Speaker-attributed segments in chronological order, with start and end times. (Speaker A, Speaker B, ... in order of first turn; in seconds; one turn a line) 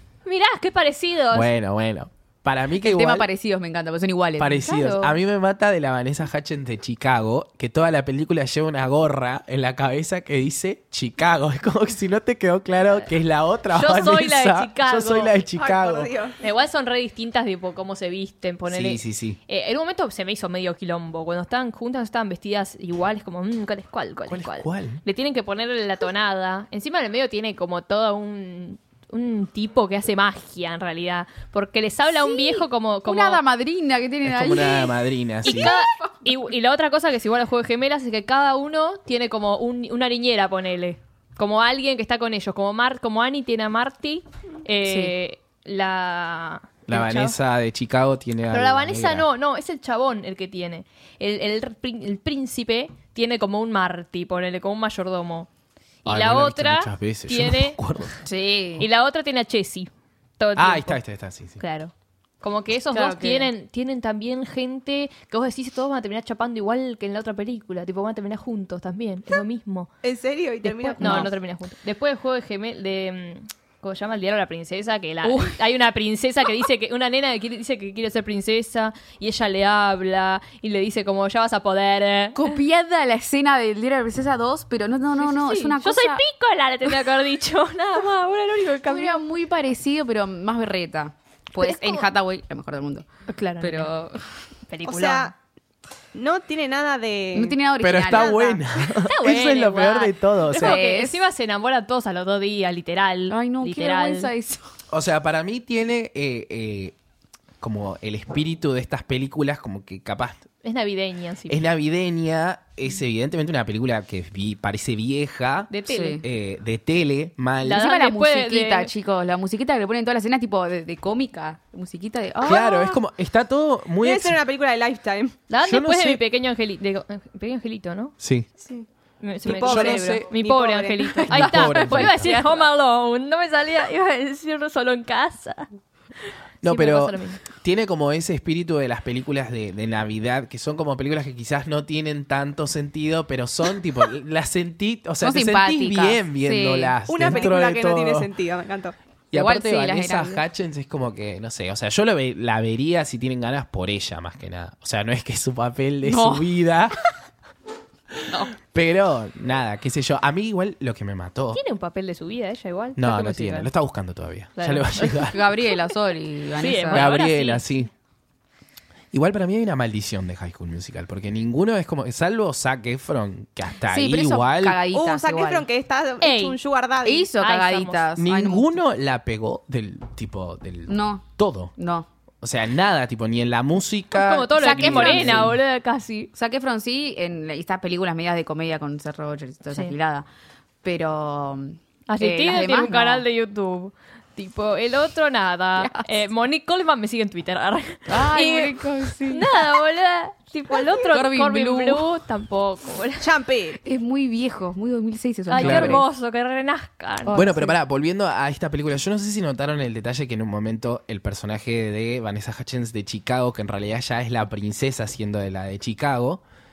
Speaker A: 0.2-1.5
Speaker B: 1.3-3.3
Speaker C: 2.8-4.7
Speaker B: 4.4-16.1
Speaker A: 4.6-5.2
Speaker A: 13.7-15.3
Speaker D: 15.5-16.4
Speaker A: 16.4-33.4
Speaker B: 18.7-19.4
Speaker B: 24.3-25.0
Speaker C: 32.2-36.1
Speaker B: 34.2-35.7
Speaker A: 35.4-47.3
Speaker C: 44.8-45.1
Speaker B: 46.9-49.3
Speaker A: 48.5-55.5
Speaker A: 56.0-57.8
Speaker B: 56.0-58.2
Speaker C: 58.2-58.9
Speaker A: 58.8-61.0
Speaker B: 60.5-61.6
Speaker A: 61.6-69.9
Speaker C: 62.9-63.5
Speaker D: 63.0-63.4
Speaker D: 70.0-71.3
Speaker C: 70.8-71.3
Speaker A: 71.0-82.5
Speaker C: 75.2-75.6
Speaker C: 82.3-86.2
Speaker A: 85.2-89.2
Speaker C: 88.8-93.1
Speaker A: 91.6-92.1
Speaker A: 93.3-93.9
Speaker C: 93.6-94.2
Speaker A: 94.7-95.3
Speaker D: 94.8-95.3
Speaker D: 96.1-97.6
Speaker C: 97.3-98.6
Speaker B: 97.8-100.8
Speaker D: 98.1-98.5
Speaker A: 99.0-104.3
Speaker C: 100.5-101.2
Speaker C: 103.3-104.6
Speaker B: 104.9-107.0
Speaker B: 107.6-110.5
Speaker A: 110.6-111.6
Speaker B: 111.5-117.9
Speaker A: 115.7-116.2
Speaker C: 115.9-116.2
Speaker A: 117.6-118.9
Speaker C: 117.7-123.0
Speaker B: 122.4-124.4
Speaker D: 124.0-125.4
Speaker A: 125.5-128.2
Speaker B: 125.6-126.2
Speaker B: 128.2-128.5
Speaker A: 129.2-135.7
Speaker D: 129.4-131.4
Speaker B: 129.6-130.2
Speaker B: 131.3-132.3
Speaker C: 131.3-132.6
Speaker A: 136.6-137.4
Speaker B: 136.6-148.3
Speaker C: 145.2-147.5
Speaker D: 147.1-148.9
Speaker B: 149.3-157.0
Speaker C: 149.3-150.4
Speaker C: 156.0-156.5
Speaker B: 158.3-161.6
Speaker A: 161.5-163.7
Speaker B: 162.9-165.4
Speaker A: 164.6-165.1
Speaker C: 165.0-167.1
Speaker A: 166.6-167.6
Speaker B: 166.9-167.9
Speaker B: 169.1-174.8
Speaker C: 173.9-175.7
Speaker D: 174.9-177.3
Speaker A: 176.2-176.6
Speaker C: 177.0-178.7
Speaker A: 177.4-178.1
Speaker B: 178.2-181.7
Speaker C: 180.9-181.2
Speaker C: 181.8-182.1
Speaker B: 182.4-185.6
Speaker A: 184.1-186.3
Speaker C: 184.6-185.6
Speaker C: 186.3-190.3
Speaker C: 190.8-193.2
Speaker A: 192.1-203.2
Speaker C: 195.8-196.1
Speaker C: 198.1-199.5
Speaker C: 200.7-202.1
Speaker D: 203.2-203.8
Speaker C: 203.8-206.0
Speaker A: 205.5-207.5
Speaker B: 205.6-206.0
Speaker C: 207.2-207.7
Speaker B: 207.3-216.4